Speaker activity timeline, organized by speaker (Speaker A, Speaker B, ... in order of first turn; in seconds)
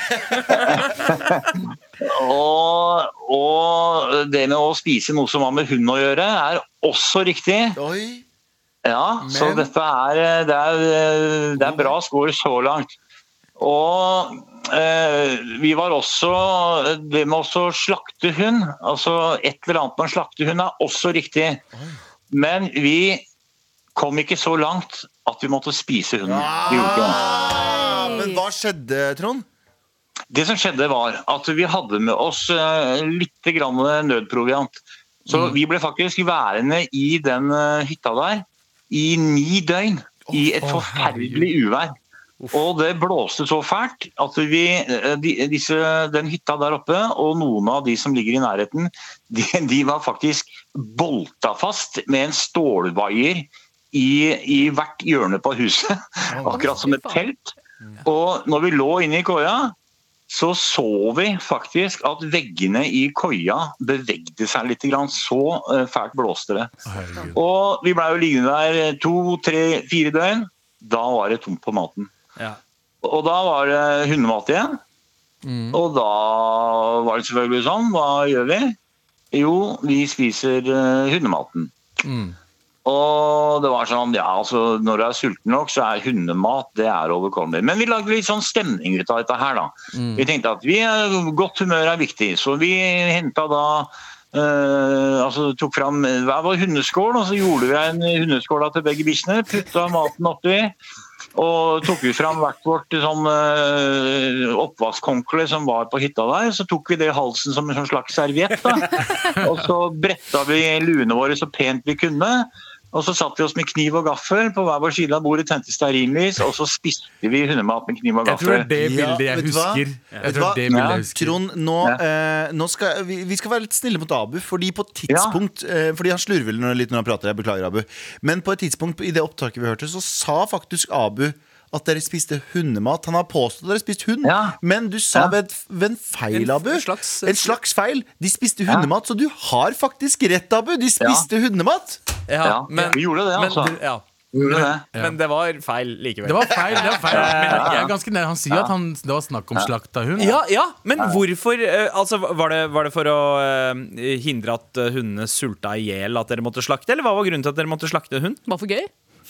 Speaker A: 0.3-0.7, 7.8-8.2, 11.6-11.9, 26.2-29.5, 40.3-40.9, 56.3-56.7, 118.8-142.0
Speaker B: 0.5-7.8, 8.8-13.0, 13.6-21.6, 22.3-23.3, 23.9-27.2, 30.3-41.9, 42.5-59.8, 60.3-66.7, 67.3-72.1, 73.0-74.8, 75.7-78.8, 79.3-81.7, 82.8-100.8, 101.3-118.7, 120.7-121.0, 125.1-125.4, 134.2-134.6, 141.0-141.3, 142.4-143.8, 144.3-144.9, 147.1-147.9, 149.6-150.2
Speaker C: 9.2-9.7, 40.7-41.5, 66.9-67.4, 75.4-75.8, 82.0-82.4, 89.9-90.3, 109.2-109.5, 118.2-121.4, 146.2-150.4
Speaker D: 27.7-28.4, 56.5-57.2, 158.5-158.9
Speaker E: 136.3-137.6, 142.3-147.9, 150.2-158.4